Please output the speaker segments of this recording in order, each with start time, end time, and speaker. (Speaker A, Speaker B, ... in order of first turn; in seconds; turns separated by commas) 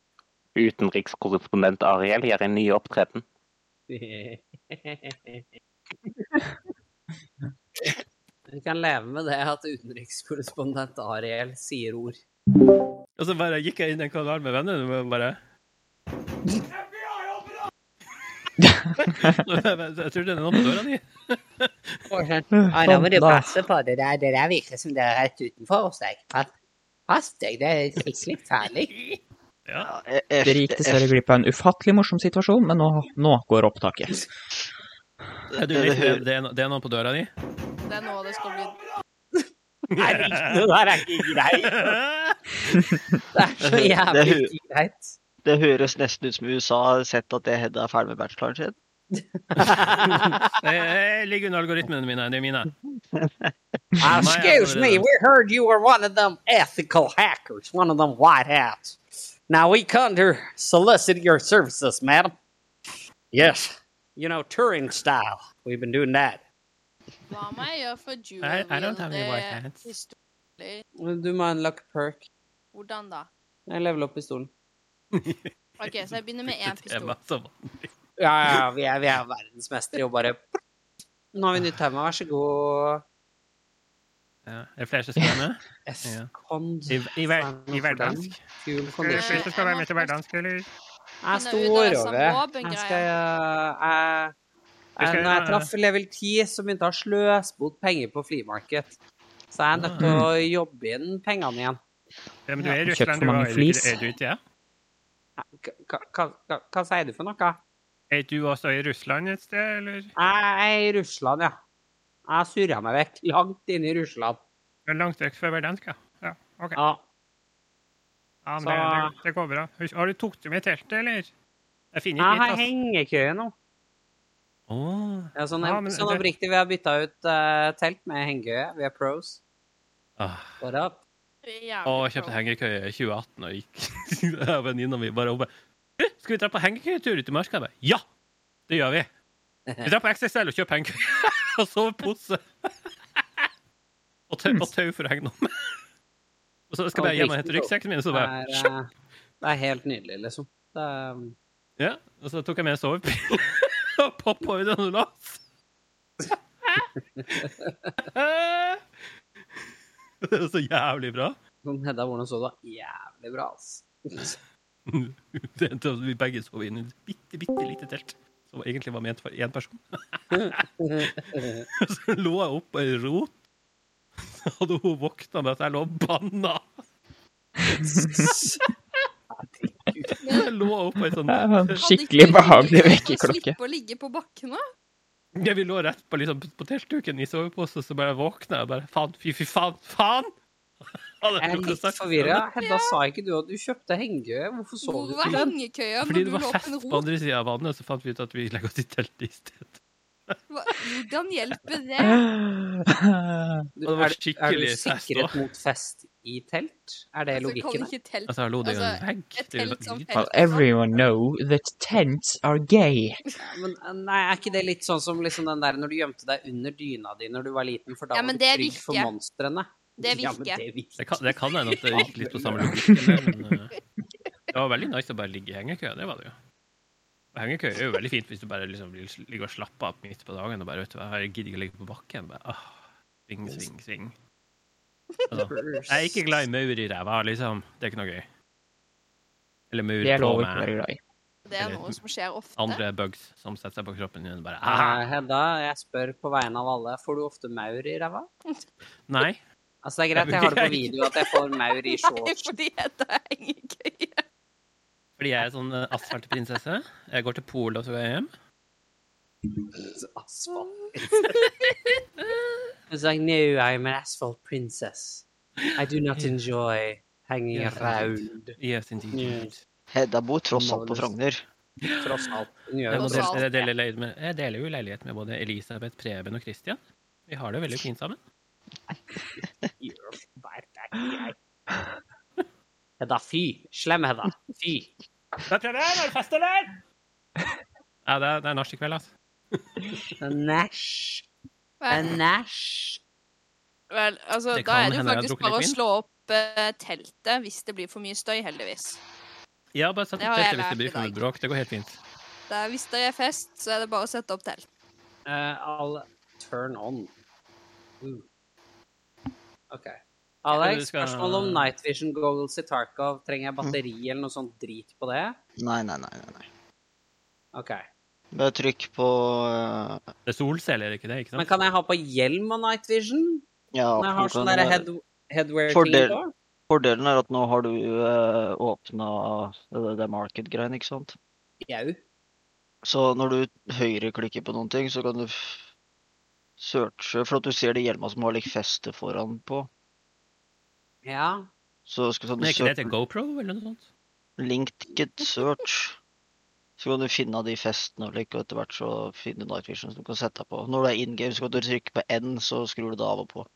Speaker A: 0.6-3.2, Speaker B: 3.9-5.5, Speaker B: 8.5-12.2, Speaker C: 13.2-15.4, Speaker D: 18.6-19.4, Speaker C: 19.0-22.0, Speaker B: 22.1-26.5, Speaker D: 22.5-23.5, Speaker B: 27.1-29.0, Speaker E: 29.8-31.1, Speaker D: 30.4-34.3, Speaker E: 35.5-36.2, Speaker C: 35.5-37.3, Speaker F: 37.9-38.8, Speaker C: 39.9-40.6, Speaker B: 40.0-41.9, Speaker C: 41.6-42.4, Speaker B: 43.3-45.1, Speaker E: 44.1-44.5, Speaker E: 45.4-48.8, Speaker B: 49.1-50.5, Speaker C: 50.1-52.7, Speaker E: 53.1-53.5, Speaker B: 54.0-62.3, Speaker C: 54.0-55.1, Speaker B: 63.3-66.4, Speaker F: 67.3-70.8, Speaker C: 68.4-69.9, Speaker B: 71.0-72.2, Speaker F: 72.7-73.3, Speaker B: 73.7-74.5, Speaker C: 75.1-77.9, Speaker F: 75.8-77.2, Speaker B: 78.2-80.4, Speaker B: 81.3-83.0, Speaker C: 84.5-86.3, Speaker B: 85.8-89.5, Speaker C: 86.9-88.4, Speaker C: 89.0-90.7, Speaker F: 89.1-90.2, Speaker B: 91.2-94.3, Speaker F: 91.3-93.1, Speaker B: 95.0-99.0, Speaker C: 95.0-95.7, Speaker B: 99.5-101.8, Speaker C: 99.8-100.1, Speaker D: 100.0-100.3, Speaker C: 102.5-104.4, Speaker D: 102.6-104.1, Speaker B: 105.4-107.6, Speaker C: 108.1-110.1, Speaker B: 110.2-111.6, Speaker B: 112.3-114.4, Speaker C: 114.9-116.8, Speaker B: 116.8-117.0, Speaker C: 118.5-121.3, Speaker B: 118.6-119.2, Speaker C: 121.9-122.7, Speaker B: 122.2-123.5, Speaker C: 124.7-126.2, Speaker B: 125.3-129.4, Speaker C: 130.2-130.5, Speaker B: 130.6-131.0, Speaker F: 131.4-132.4, Speaker C: 131.8-138.0, Speaker C: 138.7-139.1, Speaker B: 139.7-139.9, Speaker C: 139.8-142.7, Speaker C: 144.3-145.8, Speaker C: 146.7-148.7, Speaker B: 146.9-148.9, Speaker B: 149.4-151.3, Speaker C: 151.8-155.4, Speaker C: 156.6-158.8, Speaker B: 157.2-157.9, Speaker C: 160.2-161.4, Speaker B: 161.7-164.3, Speaker C: 164.9-171.1, Speaker B: 170.3-171.7, Speaker C: 171.7-173.3, Speaker C: 174.3-176.7, Speaker D: 177.8-178.3, Speaker B: 178.2-178.6, Speaker B: 179.3-180.2, Speaker F: 180.2-180.5, Speaker C: 180.2-181.8, Speaker D: 181.3-183.6, Speaker F: 181.8-184.6, Speaker C: 185.4-190.3, Speaker C: 190.9-192.5, Speaker B: 191.4-195.5, Speaker F: 192.6-192.9, Speaker F: 194.8-197.0, Speaker C: 196.0-199.8, Speaker C: 200.3-200.9, Speaker F: 200.5-202.2, Speaker D: 202.0-203.7, Speaker B: 203.8-207.9, Speaker C: 203.8-205.4, Speaker F: 207.3-210.7, Speaker C: 208.3-210.2, Speaker D: 210.1-213.2, Speaker B: 213.4-221.3, Speaker F: 218.1-219.1, Speaker F: 220.0-220.6, Speaker C: 221.0-223.7, Speaker B: 221.9-222.6, Speaker D: 222.8-223.2, Speaker C: 224.5-226.3, Speaker C: 227.3-234.1, Speaker F: 235.2-235.5, Speaker C: 235.3-238.2, Speaker B: 235.3-236.3, Speaker C: 239.7-240.7, Speaker D: 240.0-241.0, Speaker F: 241.5-242.8, Speaker C: 241.6-242.0, Speaker C: 242.6-245.0, Speaker B: 244.6-248.3, Speaker C: 249.1-249.4, Speaker B: 249.8-252.5, Speaker C: 250.2-251.2, Speaker F: 252.0-254.2, Speaker C: 255.2-258.3, Speaker B: 259.7-261.3, Speaker F: 261.6-261.9, Speaker B: 262.9-265.2, Speaker C: 265.6-266.3, Speaker B: 265.8-268.6, Speaker C: 267.5-269.6, Speaker B: 269.1-269.5, Speaker E: 269.9-271.4, Speaker B: 270.5-271.1, Speaker B: 272.0-273.4, Speaker C: 272.9-278.2, Speaker F: 273.0-273.7, Speaker B: 279.8-281.4, Speaker B: 283.0-284.9, Speaker C: 285.5-286.7, Speaker C: 288.1-289.9, Speaker B: 290.2-291.3, Speaker F: 291.8-292.2, Speaker B: 291.9-293.0, Speaker F: 293.9-299.0, Speaker C: 294.5-295.8, Speaker C: 299.8-302.0, Speaker F: 300.2-301.2, Speaker F: 302.5-304.6, Speaker B: 305.3-307.1, Speaker B: 309.7-315.4, Speaker C: 310.5-311.7, Speaker E: 315.6-316.5, Speaker B: 317.5-317.8, Speaker E: 318.3-320.0, Speaker C: 320.2-321.5, Speaker B: 321.4-323.4, Speaker E: 323.7-324.9, Speaker B: 324.0-326.3, Speaker E: 325.7-326.2, Speaker E: 326.7-331.1, Speaker B: 331.6-332.0, Speaker E: 332.8-335.6, Speaker E: 336.6-339.7, Speaker B: 341.1-341.5, Speaker E: 341.9-342.9, Speaker C: 342.4-343.9, Speaker E: 344.4-346.0, Speaker E: 346.8-353.5